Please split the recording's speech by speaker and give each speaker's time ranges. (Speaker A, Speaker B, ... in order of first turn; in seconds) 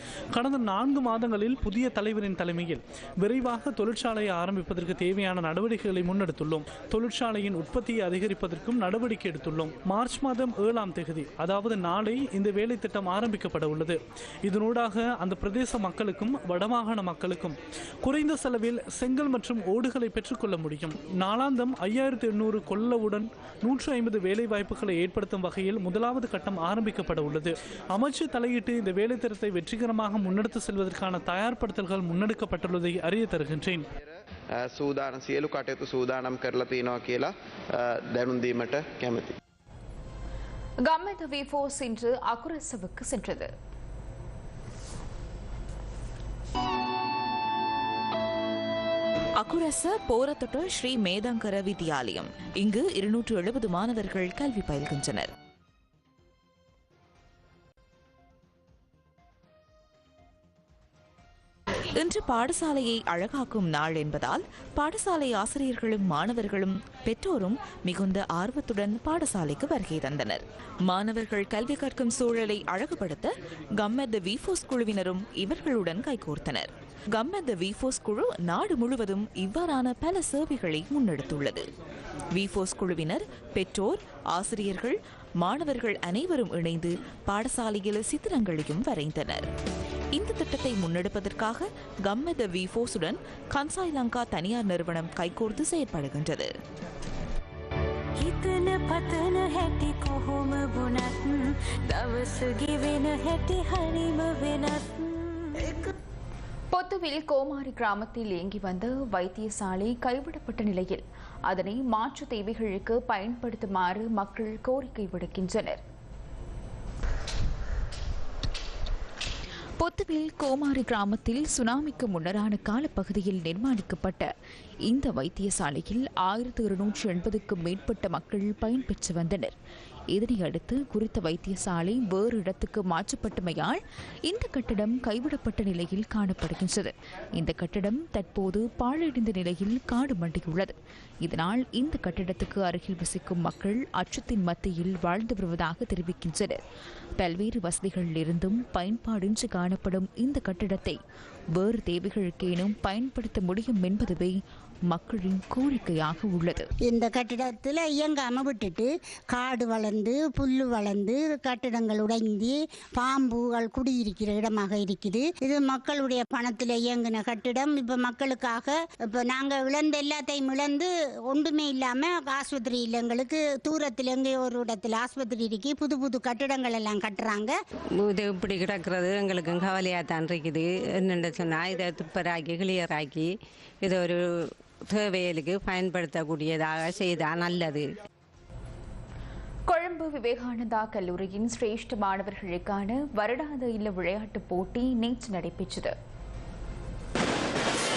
Speaker A: 0.3-33.9
Speaker B: 34.0-39.3
Speaker C: 40.8-43.5, 106.7-115.8, 119.8-124.3, 124.9-129.5, 130.1-140.7, 141.2-146.6, 147.2-151.0, 151.6-154.4, 154.9-156.7, 189.7-195.9
Speaker D: 49.4-55.3, 62.0-81.7, 82.3-89.5, 90.1-96.5
Speaker E: 98.2-105.8
Speaker F: 156.9-177.5
Speaker G: 178.0-183.3, 183.8-184.2, 184.9-187.8